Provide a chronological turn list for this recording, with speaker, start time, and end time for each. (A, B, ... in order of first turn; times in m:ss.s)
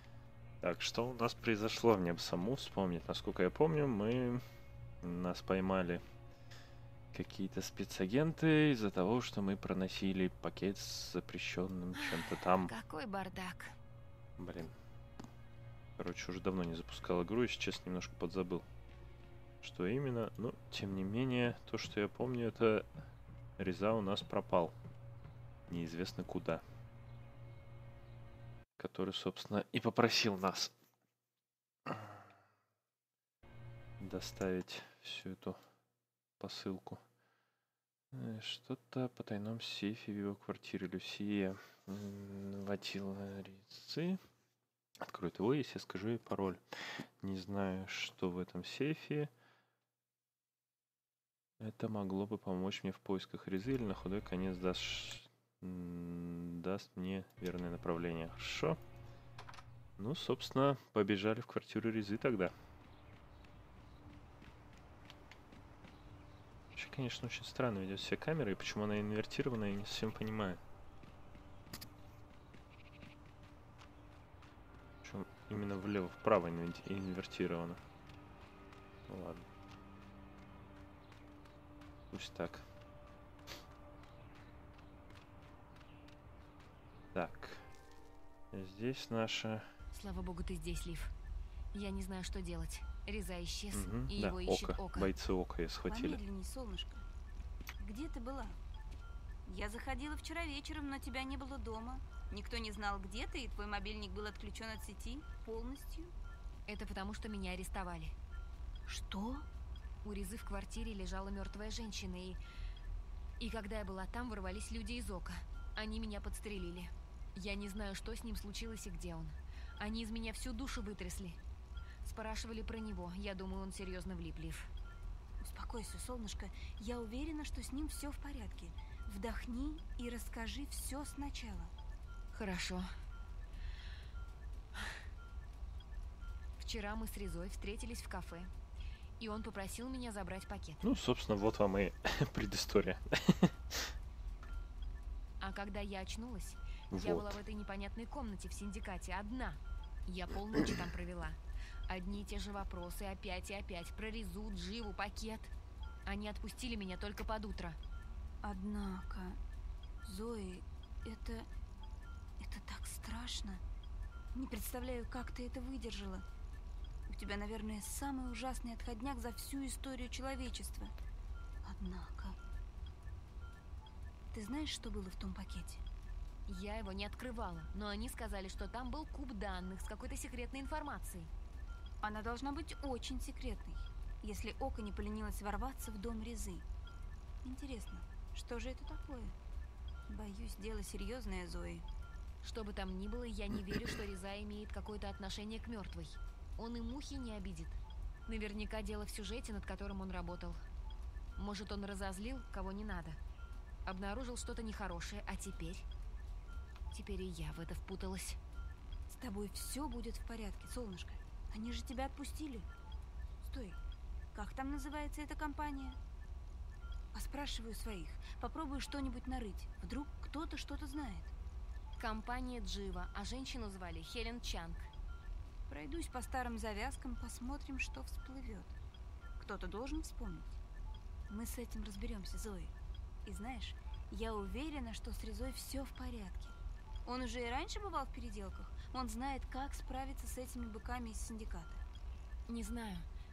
0:00.6-0:04.4 A
0:05.0-0:06.0 A
0:07.1-0:12.7 A
0:12.0-0:13.7 B
0:14.4-0:14.8 A
0:16.0-0:18.6 A
0:19.6-0:22.8 A
0:23.6-0:24.7 A
0:25.7-0:26.6 A
0:28.8-0:30.7 A
0:31.9-0:32.2 A
0:34.0-0:35.6 A
0:36.4-0:37.0 A
0:38.1-0:44.2 A
0:45.0-0:46.6 A
0:47.2-0:49.3 A
0:51.6-0:58.8 A
1:00.0-1:02.5 A
1:06.7-1:10.6 A
1:15.0-1:17.8 A
1:19.1-1:19.4 A
1:22.1-1:22.6 A
1:27.1-1:27.7 A
1:28.5-1:29.7 A
1:29.9-1:31.1 B
1:31.7-1:35.1 B
1:33.7-1:36.2 A
1:35.9-1:37.0 C
1:37.8-1:38.6 C
1:39.4-1:46.1 C
1:46.7-1:48.1 B
1:48.8-1:49.5 C
1:50.0-1:52.4 B
1:53.4-2:01.4 B
2:02.0-2:04.7 B
2:05.4-2:11.7 C
2:12.3-2:12.9 B
2:16.6-2:18.5 B
2:19.2-2:20.8 B
2:20.8-2:23.9 A
2:25.4-2:35.5 B
2:26.9-2:27.3 A
2:36.0-2:37.8 B
2:38.4-2:39.4 C
2:40.0-2:41.5 C
2:42.4-2:43.6 C
2:44.3-2:46.2 C
2:47.1-2:50.9 C
2:51.6-2:52.4 C
2:54.3-2:55.8 C
2:56.5-3:01.3 B
3:02.0-3:06.6 C
3:07.4-3:09.4 C
3:10.1-3:11.8 C
3:12.4-3:20.6 B
3:21.4-3:23.2 B
3:23.8-3:25.8 B
3:26.9-3:28.4 B
3:29.1-3:32.7 C
3:33.4-3:33.8 C
3:34.3-3:36.0 C
3:37.1-3:41.3 C
3:42.0-3:44.9 B
3:45.7-3:48.7 C
3:49.4-3:50.6 C
3:51.3-3:52.7 C
3:53.2-4:01.8 C
4:02.5-4:03.1 B